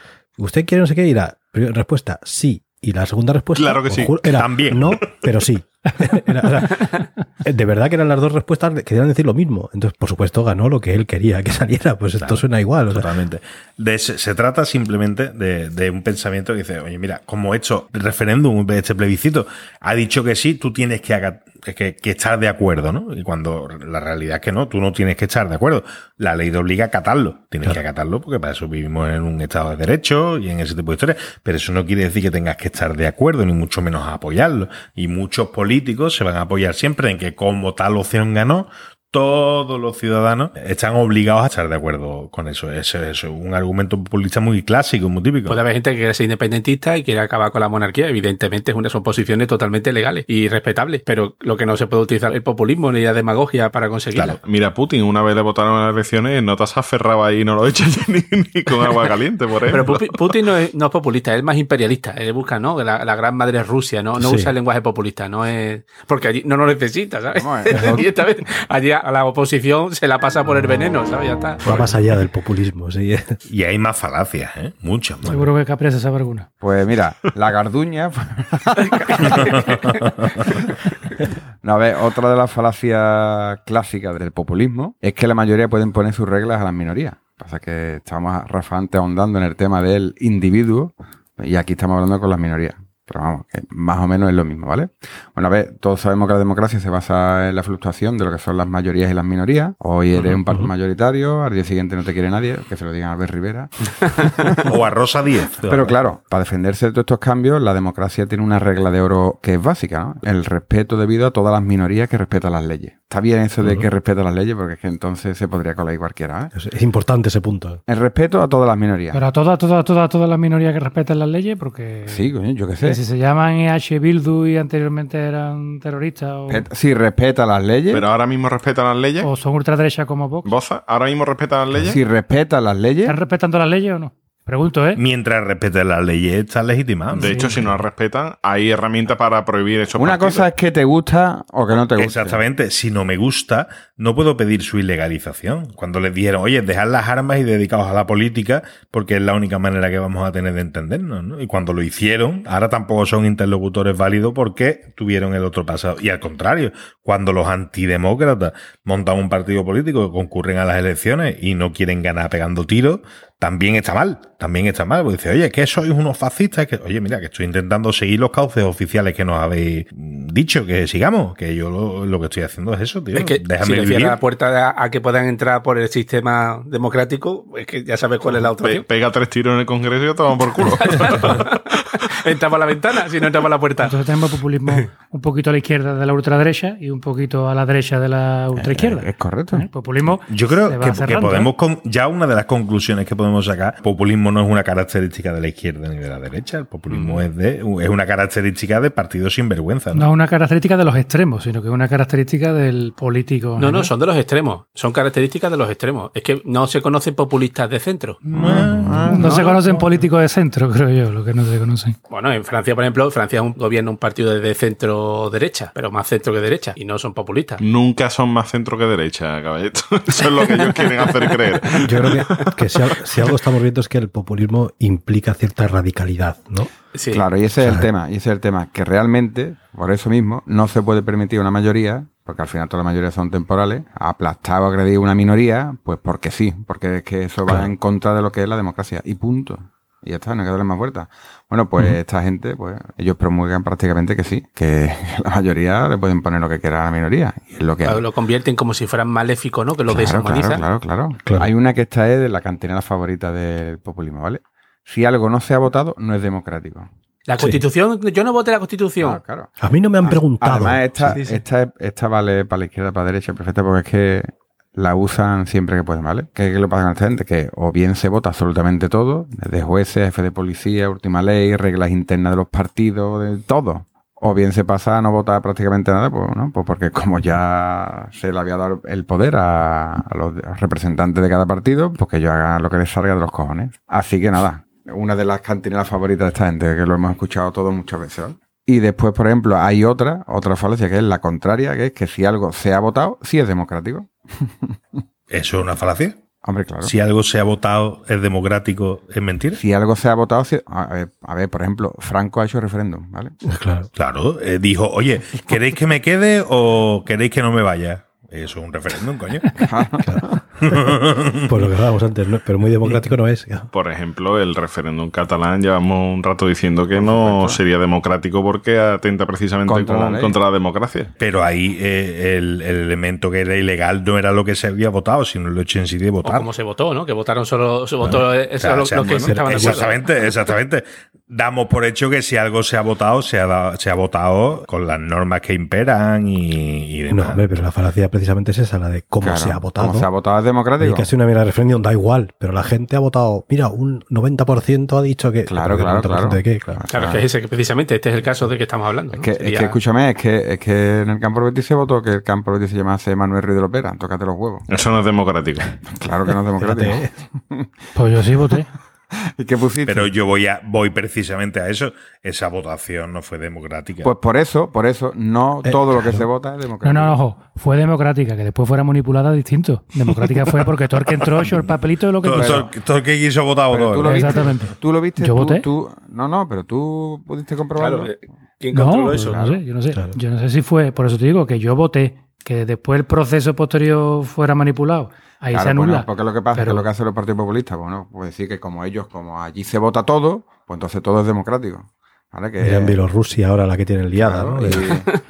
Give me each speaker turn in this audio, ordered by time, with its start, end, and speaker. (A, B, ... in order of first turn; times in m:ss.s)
0:00.4-0:13.1 A
0:03.6-0:04.3 B
0:04.3-0:05.0 C
0:12.2-0:45.6 C
0:45.5-0:54.4 D
0:54.4-1:00.3 B
0:59.7-1:11.9 D
1:04.2-1:04.5 A
1:07.4-1:08.1 E
1:11.6-1:13.4 A
1:13.5-1:15.5 C
1:15.2-1:16.5 F
1:16.6-1:20.9 E
1:18.8-1:19.9 D
1:21.6-1:44.8 E
1:44.6-1:46.0 C
1:45.6-1:56.5 E
1:56.5-1:57.8 A
1:57.9-1:59.2 E
1:59.1-2:02.2 F
2:02.1-2:03.0 E
2:02.8-2:06.7 F
2:06.5-2:08.1 E
2:07.9-2:09.3 B
2:09.2-2:10.5 F
2:10.4-2:12.0 B
2:11.8-2:13.2 E
2:13.1-2:15.0 F
2:15.0-2:17.6 C
2:17.1-2:20.5 B
2:17.2-2:17.6 F
2:20.0-2:22.4 E
2:22.0-2:54.2 C
2:53.1-2:58.9 D
2:58.6-3:01.9 B
3:00.6-3:04.0 D
3:03.8-3:11.5 F
3:08.6-3:09.7 E
3:10.3-3:20.1 C
3:16.9-3:17.2 D
3:19.9-3:23.9 F
3:23.6-3:28.2 D
3:28.3-3:29.3 C
3:29.1-3:32.0 F
3:29.1-3:29.8 D
3:32.1-3:37.6 D
3:37.6-3:42.5 B
3:40.2-3:41.4 D
3:41.7-3:46.7 A
3:46.9-3:47.3 D
3:47.1-4:08.0 E
3:47.6-3:47.9 A
4:07.8-4:10.7 D
4:09.9-4:16.9 E
4:17.3-4:19.2 D
4:17.4-4:17.6 A
4:19.0-4:55.0 E
4:19.6-4:21.2 A
4:21.1-4:21.4 D
4:55.3-4:56.2 C
4:56.4-4:57.0 E
4:56.8-4:59.6 C
4:59.6-5:03.4 E
5:03.4-5:03.9 A
5:04.0-5:09.6 C
5:09.6-5:10.4 E
5:10.0-5:10.8 A
5:10.6-5:11.6 C
5:11.5-5:13.7 A
5:13.7-5:21.1 B
5:16.9-5:17.6 E
5:19.7-5:20.4 E
5:21.2-5:26.5 C
5:26.2-5:30.0 D
5:28.1-5:37.5 C
5:29.2-5:29.8 A
5:37.1-5:40.1 A
5:39.2-5:41.1 E
5:40.8-5:46.8 A
5:45.5-5:47.2 E
5:46.9-5:49.8 D
5:49.1-5:54.7 E
5:54.7-5:55.7 B
5:55.9-5:57.7 E
5:56.6-5:57.1 A
5:58.0-5:58.7 F
5:59.3-6:00.1 E
5:59.9-6:04.1 C
6:04.0-6:07.2 E
6:05.6-6:06.3 A
6:06.8-6:12.7 F
6:12.2-6:14.4 C
6:12.3-6:12.7 E
6:13.7-6:18.1 E
6:14.0-6:15.7 F
6:17.8-6:19.5 D
6:18.7-6:26.9 F
6:19.3-6:19.6 E
6:25.5-6:33.0 E
6:32.6-6:35.0 A
6:34.2-6:35.1 E